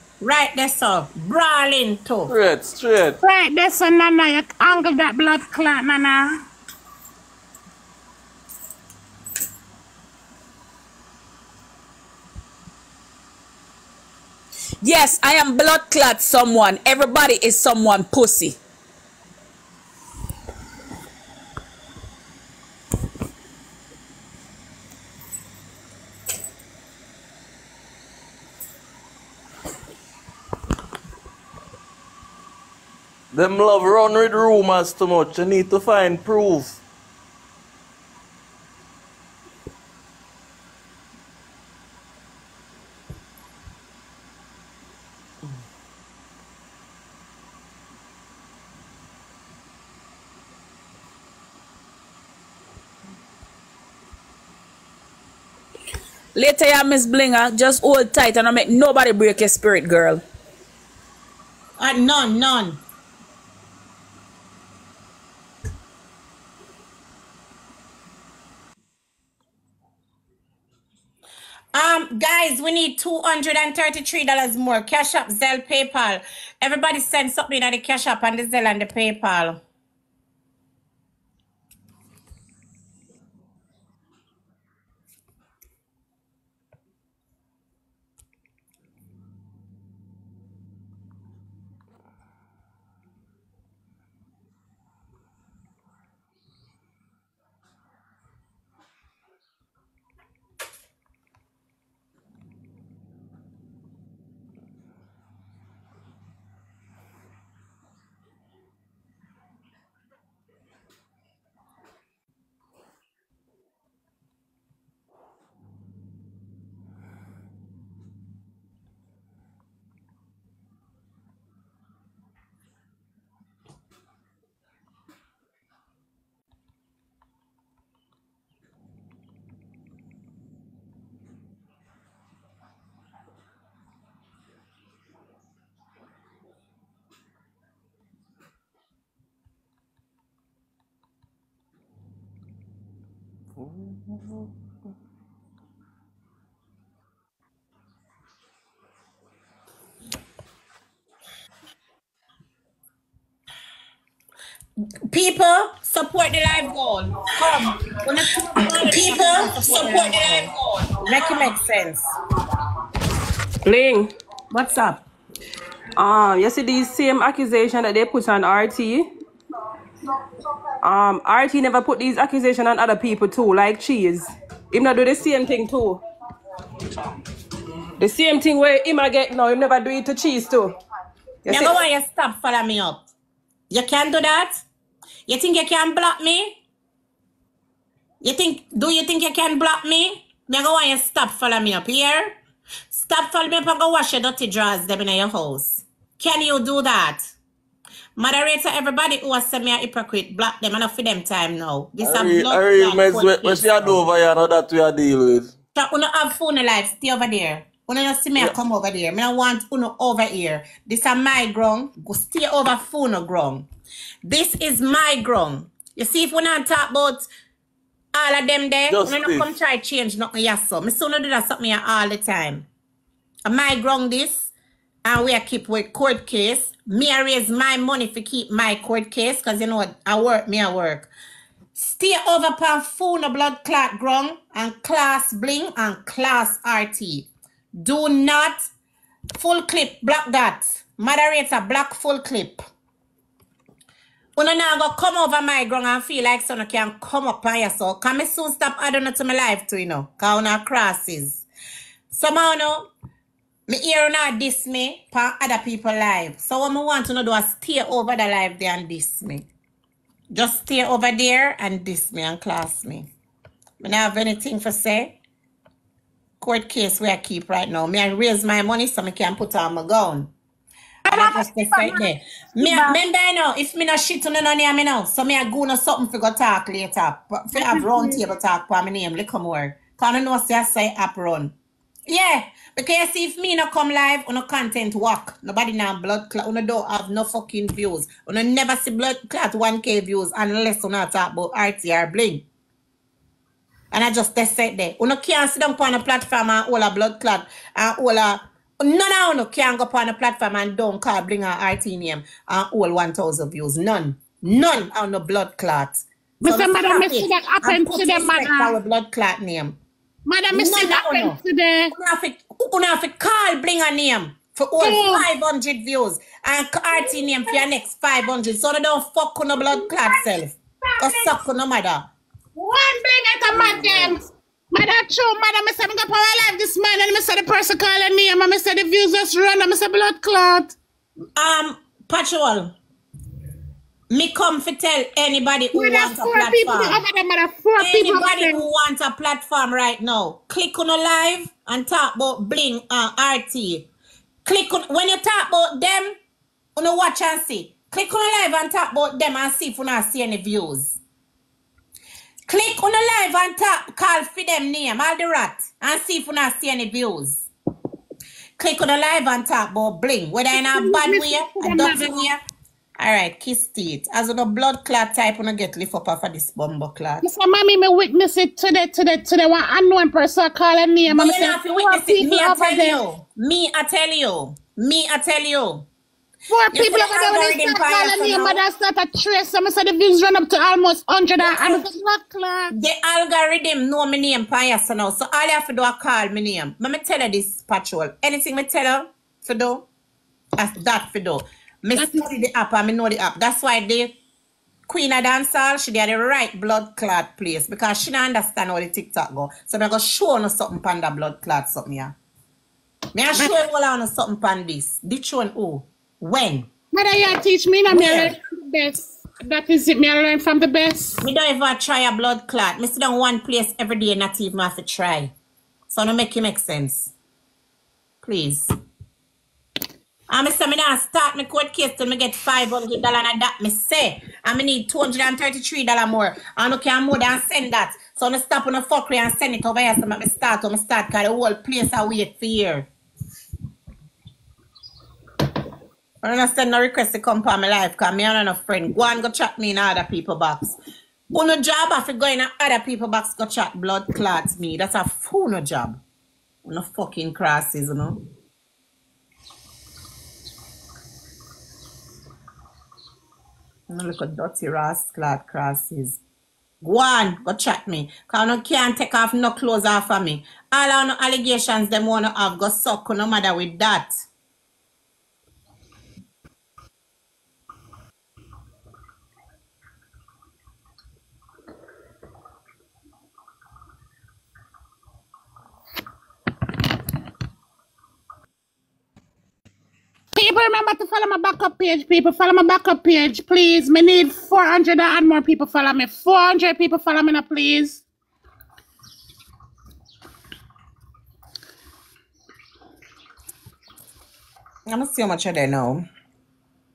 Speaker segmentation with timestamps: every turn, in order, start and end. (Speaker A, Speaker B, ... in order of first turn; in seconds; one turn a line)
Speaker A: 0.2-2.3
Speaker B: 2.3-3.1
Speaker C: 3.2-6.4
Speaker D: 14.8-18.6
Speaker B: 33.3-36.8
Speaker D: 56.3-60.2
Speaker A: 61.8-62.8
Speaker A: 71.7-79.6
Speaker B: 143.6-144.4
Speaker A: 155.1-162.0
Speaker E: 163.6-164.1
Speaker A: 164.5-165.0
Speaker E: 165.9-169.1
Speaker E: 170.8-176.0
Speaker E: 178.0-180.7
Speaker E: 181.4-181.8
Speaker A: 181.5-183.1
Speaker A: 183.7-184.6
Speaker A: 185.3-186.6
Speaker A: 188.2-192.4
Speaker A: 192.9-197.3
Speaker A: 198.2-204.0
Speaker B: 202.0-205.5
Speaker A: 205.7-213.7
Speaker A: 214.2-217.3
Speaker A: 218.1-222.7
Speaker B: 218.9-219.4
Speaker A: 223.4-224.5
Speaker A: 225.0-231.1
Speaker A: 231.7-238.7
Speaker A: 239.3-242.6
Speaker A: 244.3-251.4
Speaker A: 252.1-252.9
Speaker A: 253.7-259.5
Speaker A: 260.3-263.1
Speaker A: 263.8-265.2
Speaker A: 266.4-270.3
Speaker C: 271.1-273.0
Speaker A: 271.1-281.5
Speaker C: 277.5-278.2
Speaker A: 282.1-292.4
Speaker A: 293.9-309.8
Speaker C: 306.4-308.8
Speaker C: 310.2-311.9
Speaker A: 310.5-311.4
Speaker A: 311.9-322.1
Speaker C: 314.8-315.3
Speaker C: 316.9-317.6
Speaker C: 319.6-321.4
Speaker C: 322.6-330.7
Speaker A: 323.5-324.1
Speaker A: 331.4-332.7
Speaker A: 334.1-337.0
Speaker C: 335.7-338.6
Speaker A: 337.8-343.9
Speaker A: 344.4-346.1
Speaker A: 346.8-351.0
Speaker A: 352.5-357.5
Speaker A: 358.6-362.4
Speaker C: 360.5-362.3
Speaker A: 363.0-367.3
Speaker C: 367.2-373.0
Speaker A: 371.1-375.9
Speaker C: 376.5-382.7
Speaker A: 376.7-378.6
Speaker A: 381.4-381.8
Speaker A: 382.7-389.9
Speaker A: 390.6-394.1
Speaker C: 391.9-392.3
Speaker A: 394.9-402.1
Speaker A: 403.1-406.7
Speaker C: 406.9-411.2
Speaker A: 407.9-408.3
Speaker A: 411.2-415.3
Speaker A: 415.9-417.1
Speaker A: 418.2-418.7
Speaker A: 420.3-432.9
Speaker A: 436.2-440.8
Speaker A: 441.3-446.0
Speaker A: 446.6-448.2
Speaker A: 453.9-456.2
Speaker A: 456.8-464.1
Speaker C: 480.3-488.0
Speaker A: 494.9-496.1